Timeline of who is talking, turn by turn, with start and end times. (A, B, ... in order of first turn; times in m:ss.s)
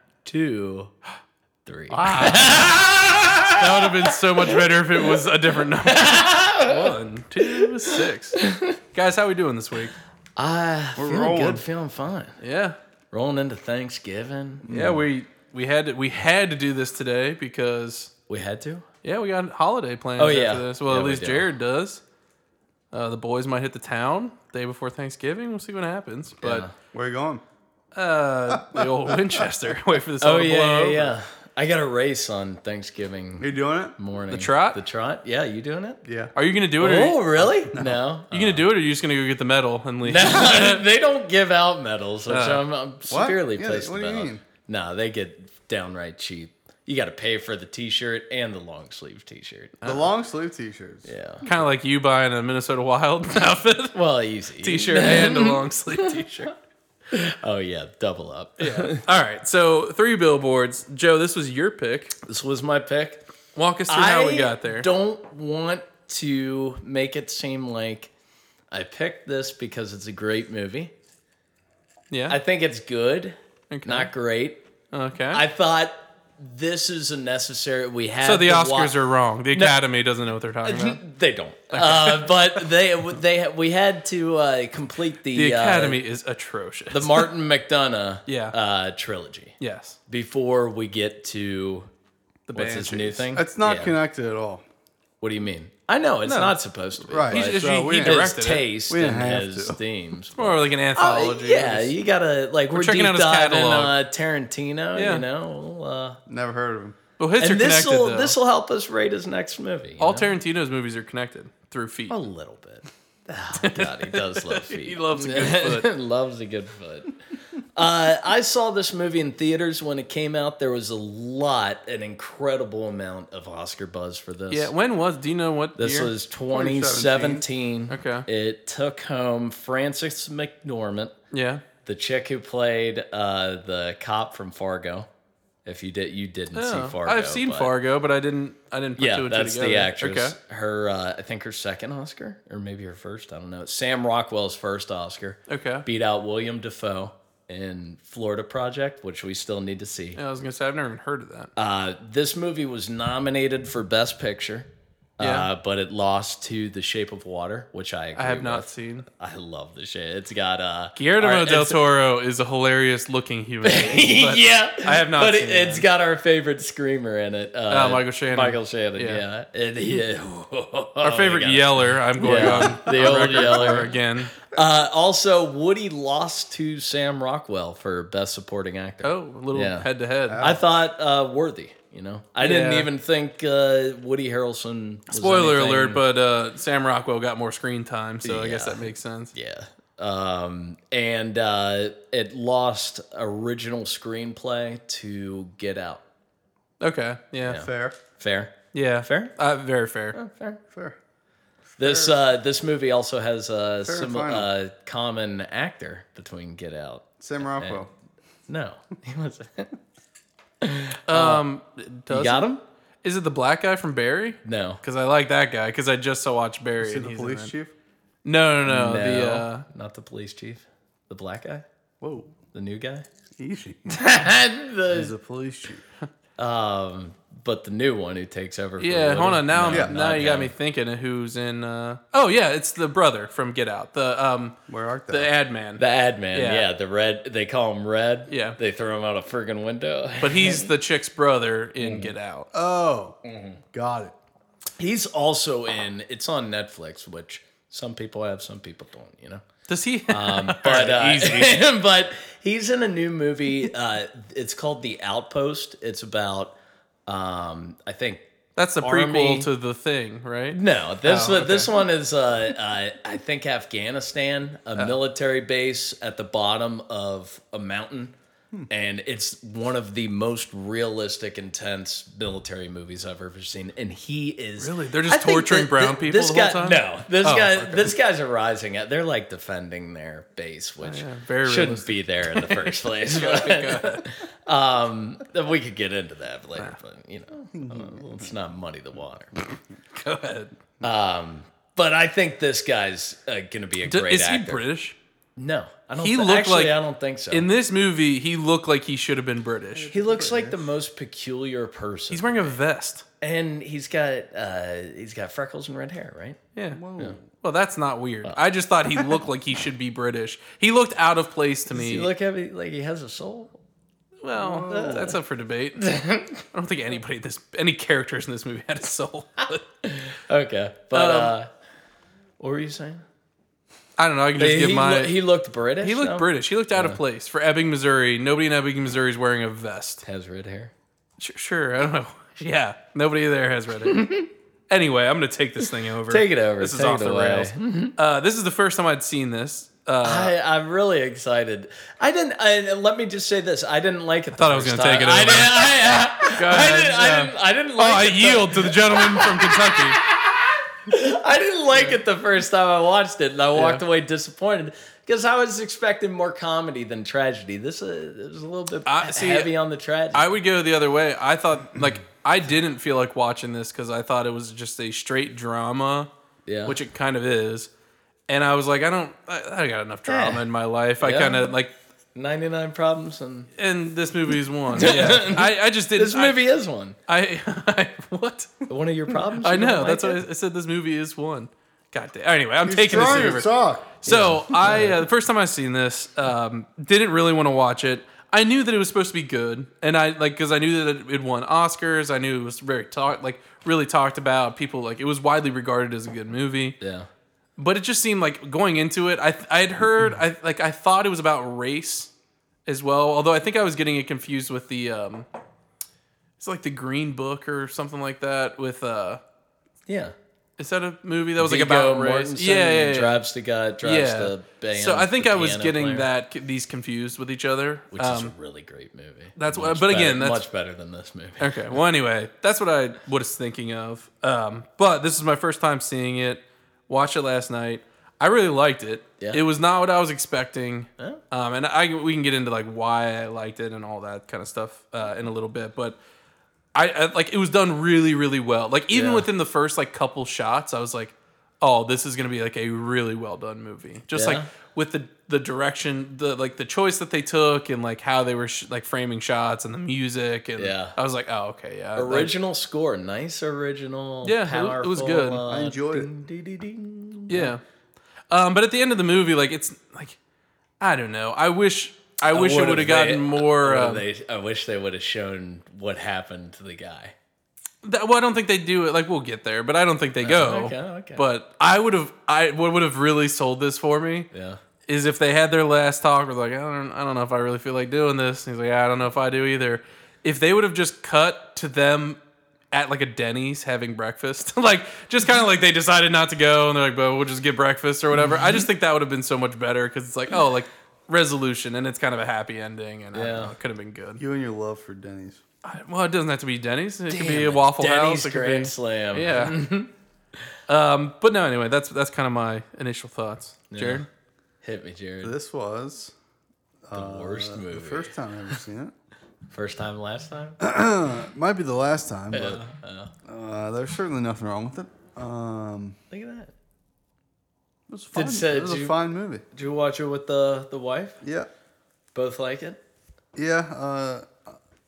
0:00.2-0:00.9 A
0:01.7-0:05.2 A
0:01.9-0:02.8 B
0:03.5-0:08.4 B
0:05.8-0:08.8 A
0:08.9-0:09.9 B
0:10.4-0:12.4 A
0:11.0-0:11.6 C
0:12.4-0:12.8 B
0:13.1-0:14.8 A
0:14.7-0:15.0 C
0:14.7-0:18.1 B
0:18.3-0:18.9 A
0:19.0-0:22.0 B
0:20.2-0:21.5 A
0:22.9-0:26.7 B
0:26.4-0:26.7 A
0:26.9-0:27.4 C
0:27.9-0:31.2 B
0:28.5-0:29.5 C
0:30.2-0:36.0 A
0:33.4-0:34.0 C
0:34.3-0:34.8 B
0:36.0-0:36.3 C
0:36.4-0:37.5 B
0:36.8-0:38.7 A
0:37.7-0:38.0 C
0:38.3-0:40.8 B
0:40.0-0:49.8 A
0:42.3-0:42.6 B
0:43.1-0:44.4 C
0:49.8-0:50.1 B
0:49.8-0:51.1 C
0:51.0-0:51.5 A
0:51.5-0:54.0 B
0:53.9-0:56.3 A
0:54.6-0:56.6 B
0:57.1-0:59.1 A
0:58.6-1:02.2 B
1:02.2-1:03.2 A
1:03.6-1:04.9 B
1:03.9-1:08.1 A
1:08.7-1:10.9 A
1:12.1-1:12.4 B
1:12.3-1:14.6 A
1:13.7-1:14.1 B
1:14.9-1:15.4 B
1:15.3-1:19.0 A
1:18.2-1:21.0 B
1:20.6-1:26.0 A
1:21.7-1:22.6 B
1:25.3-1:27.3 B
1:26.9-1:29.6 A
1:28.3-1:28.6 B
1:29.6-1:30.0 B
1:30.1-1:31.9 A
1:32.5-1:33.3 B
1:32.5-1:34.0 A
1:33.3-1:34.6 C
1:35.2-1:46.2 A
1:36.3-1:36.5 B
1:37.1-1:38.6 B
1:37.1-1:38.3 C
1:38.9-1:39.8 C
1:40.4-1:41.9 B
1:42.7-1:44.0 B
1:45.0-1:45.2 B
1:46.3-1:47.0 C
1:47.2-1:48.4 B
1:47.4-1:50.3 A
1:50.0-1:52.2 B
1:52.1-1:57.2 A
1:53.6-1:55.9 B
1:57.8-2:04.7 A
2:04.5-2:06.1 B
2:05.8-2:11.2 A
2:06.5-2:07.4 C
2:07.9-2:08.3 B
2:11.3-2:11.6 B
2:11.8-2:15.1 A
2:15.6-2:17.7 A
2:16.5-2:20.4 B
2:19.0-2:30.2 A
2:25.5-2:25.9 B
2:30.2-2:31.5 B
2:31.6-2:41.8 A
2:35.2-2:35.5 B
2:38.2-2:39.1 B
2:41.0-2:45.9 B
2:43.6-2:53.9 A
2:47.7-2:49.2 B
2:51.0-2:54.3 B
2:52.3-2:53.9 C
2:54.5-2:59.9 A
2:59.0-3:00.5 B
3:00.3-3:00.6 C
3:00.4-3:06.0 A
3:02.4-3:02.9 B
3:05.1-3:09.3 B
3:08.2-3:16.0 A
3:16.8-3:17.6 B
3:17.4-3:19.3 A
3:17.5-3:18.0 C
3:18.7-3:20.2 B
3:20.1-3:20.6 A
3:21.8-3:27.8 A
3:21.8-3:22.2 C
3:23.8-3:24.5 C
3:27.2-3:27.9 C
3:28.5-3:29.8 A
3:30.6-3:31.4 A
3:31.1-3:32.5 B
3:32.1-3:32.6 A
3:33.0-3:37.5 B
3:34.4-3:34.8 A
3:36.8-3:37.7 C
3:38.2-3:39.7 B
3:38.6-3:41.6 A
3:42.0-3:42.4 C
3:42.5-3:43.1 A
3:43.4-3:44.0 C
3:43.9-3:45.1 A
3:44.9-3:45.8 C
3:46.4-3:50.5 A
3:48.8-3:54.6 B
3:54.7-3:55.3 C
3:55.1-3:55.8 B
3:55.8-4:00.7 A
3:56.3-3:56.7 B
3:58.3-3:58.6 B
4:00.2-4:02.5 B
4:01.8-4:02.1 A
4:02.5-4:03.2 C
4:03.3-4:03.6 A
4:03.7-4:04.1 C
4:04.8-4:09.4 A
4:09.7-4:11.6 B
4:10.1-4:16.6 A
4:17.1-4:18.3 A
4:18.6-4:21.7 B
4:18.8-4:19.5 A
4:20.5-4:28.1 A
4:28.7-4:49.4 A
4:34.6-4:38.0 B
4:40.8-4:44.1 B
4:47.5-4:48.3 C
4:49.9-4:50.5 B
4:50.8-4:54.6 A
4:53.8-4:55.0 B
4:55.4-4:57.5 A
4:56.0-4:56.8 B
4:57.3-4:59.9 B
4:59.7-5:00.6 C
4:59.9-5:02.6 A
5:02.1-5:03.0 B
5:03.2-5:06.4 A
5:06.6-5:12.1 B
5:06.7-5:07.2 C
5:09.0-5:09.2 A
5:11.7-5:13.6 A
5:14.2-5:19.6 B
5:14.4-5:15.2 C
5:14.6-5:15.2 A
5:15.8-5:16.4 A
5:19.8-5:21.5 A
5:20.9-5:21.3 B
5:22.4-5:23.0 A
5:24.0-5:25.2 B
5:24.4-5:27.0 A
5:25.8-5:30.0 B
5:30.0-5:30.7 A
5:31.2-5:34.1 B
5:33.8-5:34.3 A
5:34.7-5:40.3 B
5:35.6-5:38.0 A
5:40.0-6:00.3 A
5:44.4-5:45.7 B
5:46.2-5:50.0 B
5:53.6-5:53.8 B
5:58.9-5:59.5 B
6:00.1-6:06.1 B
6:06.5-6:06.8 A
6:06.7-6:07.7 B
6:08.3-6:11.7 B
6:10.1-6:10.4 A
6:11.0-6:11.4 A
6:12.2-6:13.5 A
6:13.6-6:16.5 B
6:14.7-6:17.0 A
6:17.1-6:23.5 B
6:18.7-6:20.2 A
6:22.7-6:24.0 C
6:24.0-6:36.8 B
6:24.0-6:25.0 A
6:36.8-6:37.1 A
6:37.6-6:42.1 B
6:42.7-6:45.3 B
6:46.4-6:49.2 B
6:49.9-6:50.1 A
6:50.6-6:53.2 B
6:51.4-6:56.1 A
6:53.8-6:58.3 B
6:57.9-7:01.8 A
6:59.4-7:00.4 B
7:01.4-7:16.0 B
7:16.7-7:32.3 B
7:18.9-7:19.3 A
7:24.1-7:24.5 A
7:30.6-7:31.0 A
7:32.0-7:37.5 A
7:34.2-7:35.4 B
7:35.4-7:36.1 C
7:37.3-7:37.6 B
7:38.3-7:40.2 B
7:40.8-7:44.1 B
7:42.3-7:47.2 A
7:47.8-7:54.3 B
7:50.2-7:51.2 A
7:54.3-7:54.6 A
7:54.9-8:02.2 B
8:02.7-8:14.2 B
8:13.1-8:13.6 A
8:14.2-8:15.4 C
8:15.6-8:19.6 B
8:17.1-8:19.9 A
8:20.7-8:24.1 B
8:23.7-8:24.1 A
8:24.6-8:25.3 A
8:25.2-8:26.1 C
8:26.8-8:28.9 C
8:26.9-8:28.5 A
8:29.5-8:30.6 A
8:30.6-8:32.6 C
8:32.3-8:33.1 A
8:33.3-8:36.0 C
8:36.1-8:36.5 A
8:37.9-8:39.4 C
8:38.1-8:39.0 A
8:39.5-8:41.2 A
8:41.2-8:41.5 C
8:42.2-8:42.8 A
8:43.4-8:44.6 C